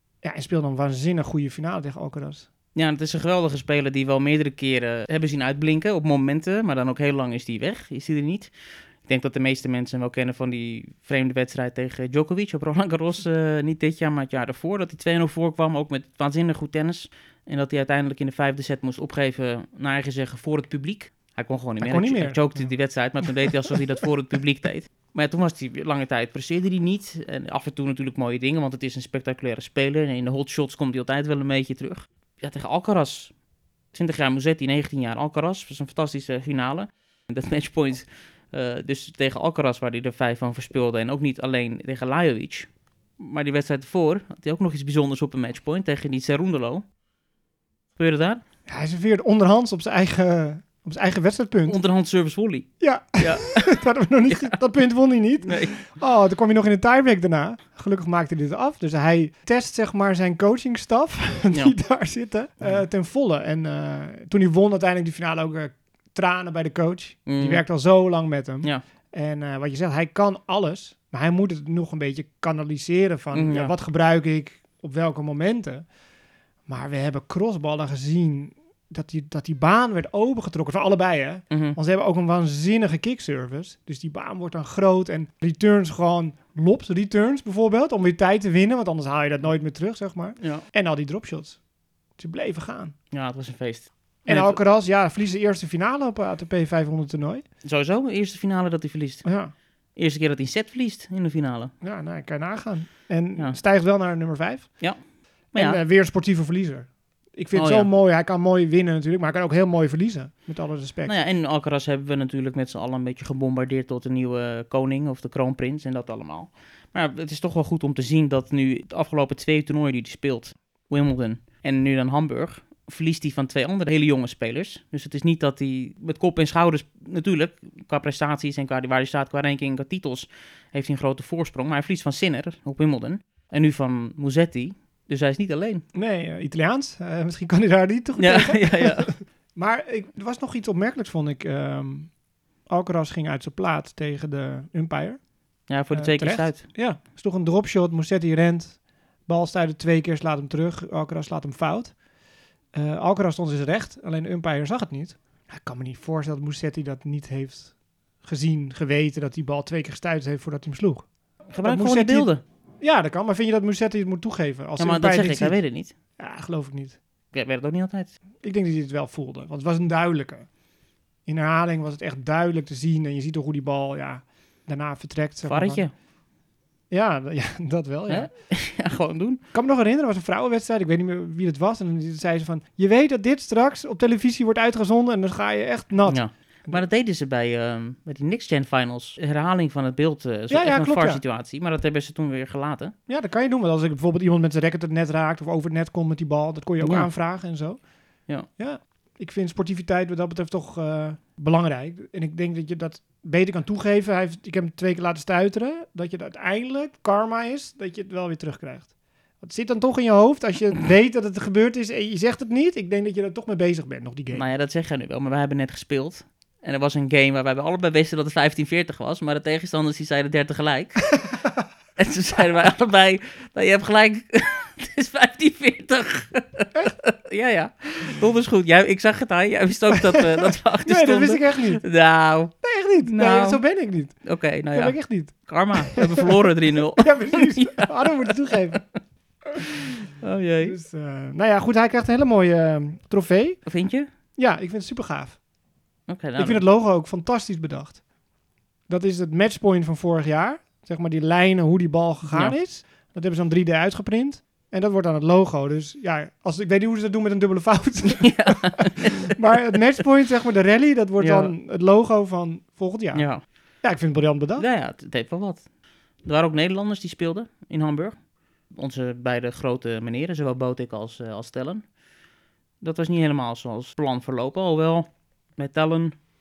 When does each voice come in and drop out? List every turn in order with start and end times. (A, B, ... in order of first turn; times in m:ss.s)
0:00.2-0:02.5 A
0:02.8-0:33.4 B
0:21.8-0:22.8 A
0:33.9-0:46.8 B
0:48.0-0:48.4 B
0:48.7-0:51.8 A
0:51.7-0:54.6 B
0:52.8-1:16.0 A
0:55.4-0:55.8 B
1:01.5-1:01.8 B
1:07.3-1:07.7 B
1:13.3-1:13.7 B
1:16.6-1:31.6 A
1:21.5-1:21.8 B
1:30.4-1:30.7 B
1:32.2-1:33.0 A
1:33.1-1:34.6 B
1:34.2-1:37.4 A
1:37.6-1:41.7 B
1:39.2-1:39.5 A
1:41.8-1:51.2 A
1:44.8-1:45.8 B
1:47.5-1:47.9 B
1:51.0-2:15.8 B
2:15.9-2:32.0 A
2:18.2-2:19.2 B
2:25.7-2:26.7 B
2:32.7-2:47.0 A
2:41.5-2:42.4 B
2:44.8-2:45.9 B
2:47.3-2:48.2 B
2:48.4-2:50.5 A
2:51.2-2:55.9 A
2:55.4-2:55.9 B
2:56.9-2:58.3 A
2:58.1-2:59.4 B
2:59.5-3:06.8 A
3:06.1-3:12.9 B
3:10.5-3:11.2 A
3:13.1-3:34.5 A
3:16.8-3:17.1 B
3:34.3-3:41.4 B
3:42.0-3:59.0 B
3:50.8-3:51.9 A
3:52.5-3:56.2 A
3:57.0-3:59.1 A
4:00.2-4:00.8 B
4:00.6-4:03.7 A
4:03.7-4:04.1 B
4:04.4-4:05.4 A
4:06.1-4:06.6 B
4:06.4-4:08.0 A
4:08.9-4:24.7 A
4:12.3-4:12.6 B
4:18.2-4:19.3 B
4:21.2-4:21.6 B
4:23.1-4:23.4 B
4:24.6-4:32.0 B
4:32.8-4:36.1 B